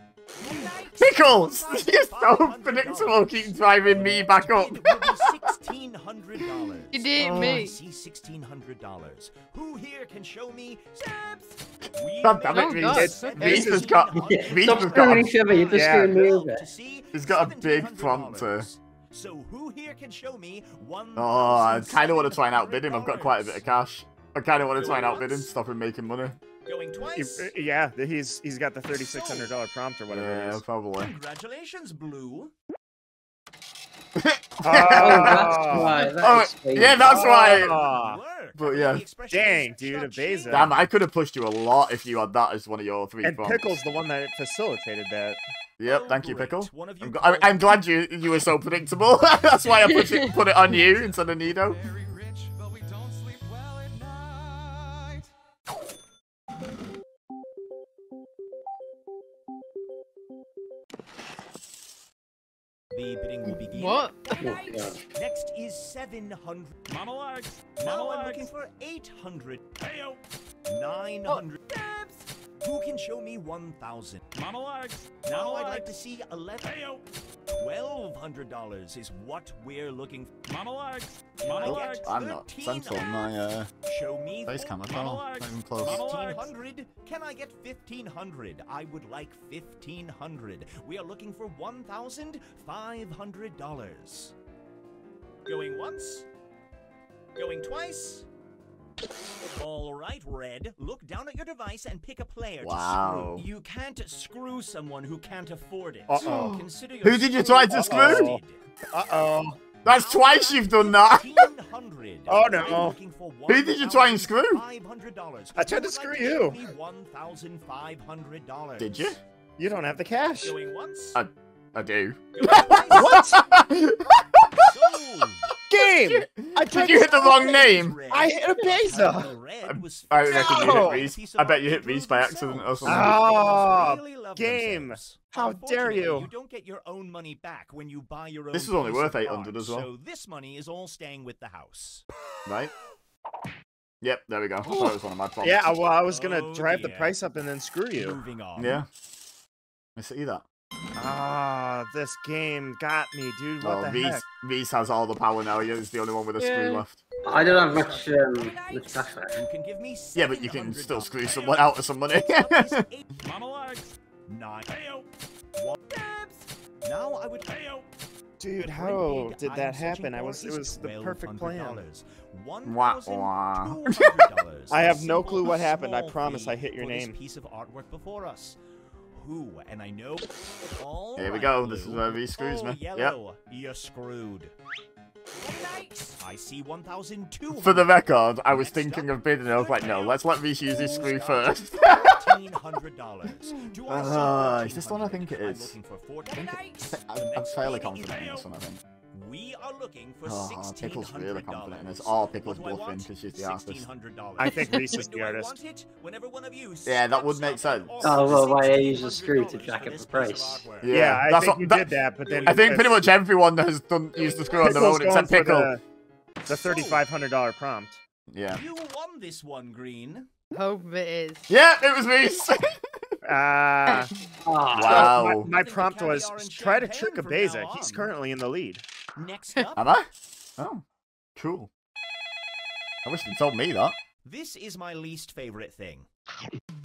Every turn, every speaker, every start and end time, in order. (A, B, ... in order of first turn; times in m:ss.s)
0:00.4-0:23.7 A
0:01.0-0:05.5 B
0:06.9-0:07.8 C
0:07.2-0:07.6 B
0:12.2-0:15.3 B
0:12.5-0:13.9 C
0:12.9-0:13.9 D
0:14.2-0:16.7 E
0:15.7-0:16.3 D
0:17.1-0:18.7 B
0:21.2-0:26.4 B
0:24.7-0:25.5 A
0:26.6-0:27.5 A
0:27.1-0:30.6 D
0:29.0-0:29.6 A
0:30.1-0:31.1 B
0:31.0-0:32.5 A
0:34.2-0:37.8 B
0:34.6-0:36.1 D
0:34.9-0:37.2 E
0:37.0-0:38.2 D
0:37.2-0:40.8 A
0:38.6-0:39.0 B
0:39.3-0:40.7 D
0:40.5-0:43.7 B
0:43.2-0:45.4 D
0:45.8-0:51.8 B
0:45.8-0:47.8 A
1:02.9-1:04.5 A
1:03.4-1:04.5 C
1:04.4-1:05.1 E
1:05.1-1:06.8 A
1:07.8-1:09.9 A
1:10.7-1:11.8 A
1:12.6-1:14.4 A
1:15.2-1:20.5 A
1:21.4-1:25.2 A
1:21.6-1:23.7 B
1:24.5-1:26.0 B
1:25.8-1:34.3 A
1:35.5-1:36.3 A
1:37.4-1:38.3 A
1:39.6-1:48.6 A
1:42.6-1:43.5 B
1:46.1-1:46.6 D
1:47.0-1:48.3 B
1:47.7-1:49.6 D
1:49.8-1:59.2 A
1:49.8-1:51.4 B
1:52.3-1:53.0 D
1:53.5-1:54.6 B
1:55.6-1:56.6 D
1:58.8-1:59.2 B
1:59.6-2:00.5 D
2:00.4-2:01.2 A
2:01.2-2:04.7 B
2:02.3-2:03.4 A
2:02.8-2:03.4 D
2:04.6-2:05.5 A
2:05.7-2:09.3 D
2:06.1-2:08.0 B
2:07.5-2:22.0 A
2:09.7-2:13.2 B
2:10.3-2:11.0 D
2:12.8-2:16.3 D
2:18.5-2:19.9 B
2:22.5-2:22.7 B
2:24.0-2:25.7 B
2:25.4-2:28.2 D
2:26.0-2:27.2 A
2:28.0-2:28.8 A
2:28.6-2:28.9 B
2:30.0-2:30.4 B
2:31.0-2:34.2 D
2:33.6-2:37.0 B
2:36.4-2:36.8 C
2:37.2-2:39.4 E
2:37.2-2:38.3 A
2:39.3-2:45.0 A
2:40.2-2:42.8 B
2:45.6-2:47.8 A
2:48.4-2:51.8 D
2:48.6-2:58.6 A
2:52.6-2:54.2 B
2:54.7-2:57.2 D
2:59.2-3:04.5 A
3:01.2-3:03.2 B
3:05.4-3:18.5 A
3:07.5-3:12.3 B
3:13.8-3:15.8 B
3:16.3-3:18.8 B
3:19.1-3:30.9 A
3:20.3-3:23.9 B
3:24.4-3:25.6 D
3:26.9-3:28.5 B
3:28.0-3:30.8 E
3:30.8-3:31.9 B
3:30.9-3:33.1 D
3:32.2-3:32.9 A
3:32.4-3:35.7 B
3:34.2-3:34.5 A
3:34.5-3:35.8 D
3:36.5-3:38.0 D
3:36.6-3:37.0 A
3:38.3-3:38.6 B
3:38.5-3:40.3 A
3:40.5-3:41.5 C
3:41.5-3:42.8 B
3:43.2-3:44.1 D
3:44.4-3:45.1 E
3:44.7-3:48.8 D
3:44.7-3:45.5 B
3:45.0-3:48.1 A
3:49.2-3:49.9 A
3:49.8-3:50.8 B
3:51.4-3:51.7 B
3:53.0-3:54.0 B
3:54.2-3:56.1 A